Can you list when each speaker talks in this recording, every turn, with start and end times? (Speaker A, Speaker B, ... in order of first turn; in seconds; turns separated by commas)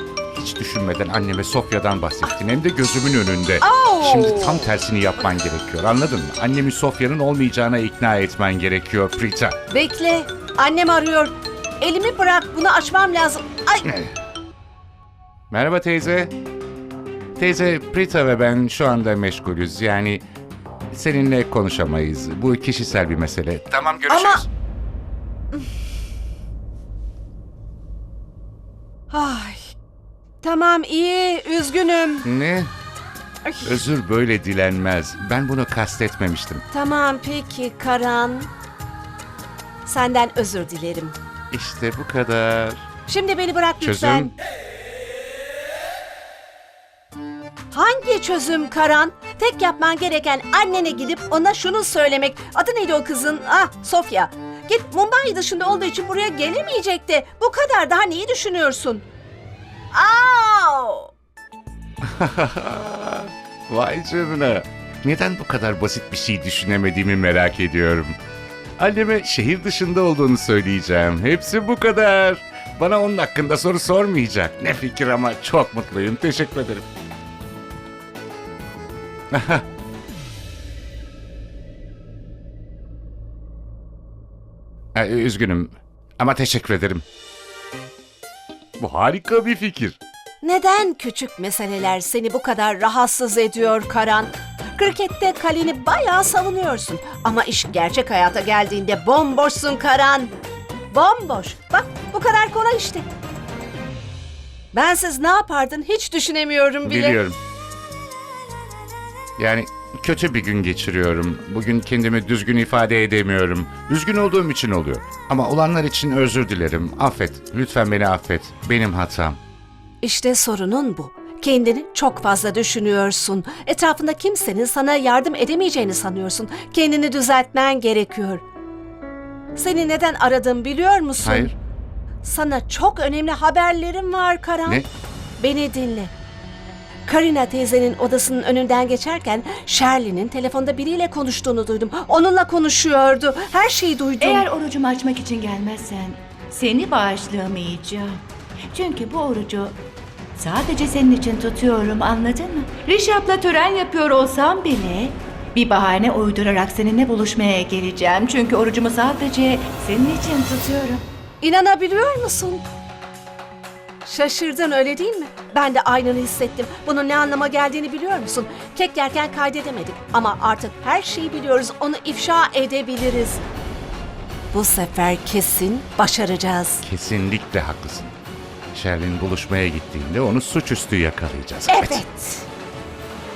Speaker A: 0.3-9.6, Speaker B: 3.6-4.6, Speaker B: 9.7-13.9, Speaker A: 13.8-14.1, Speaker A: 15.5-16.3, Speaker A: 17.4-20.2, Speaker A: 20.9-24.5, Speaker B: 24.1-24.4, Speaker B: 29.1-29.7, Speaker B: 30.4-32.2, Speaker A: 32.2-32.7, Speaker A: 33.6-36.6, Speaker B: 36.7-38.5, Speaker B: 39.8-41.1, Speaker A: 41.5-42.9, Speaker B: 43.1-44.3, Speaker A: 43.8-44.3, Speaker B: 47.7-59.0, Speaker B: 59.9-61.1, Speaker A: 62.0-68.1, Speaker A: 68.8-76.9, Speaker A: 79.3-79.6, Speaker A: 84.9-87.0, Speaker A: 88.8-90.0, Speaker B: 90.4-100.3, Speaker B: 100.9-103.0, Speaker B: 104.7-107.2, Speaker A: 106.8-107.4, Speaker A: 109.4-119.4, Speaker B: 120.0-128.4, Speaker B: 129.6-131.5, Speaker A: 131.2-131.5, Speaker B: 132.2-134.8, Speaker B: 135.4-136.1, Speaker B: 137.1-144.5, Speaker C: 144.2-149.8, Speaker C: 150.3-161.0, Speaker B: 161.4-162.6, Speaker B: 164.0-173.4, Speaker B: 174.5-176.8, Speaker A: 176.8-178.1, Speaker A: 178.7-182.0, Speaker B: 181.7-182.5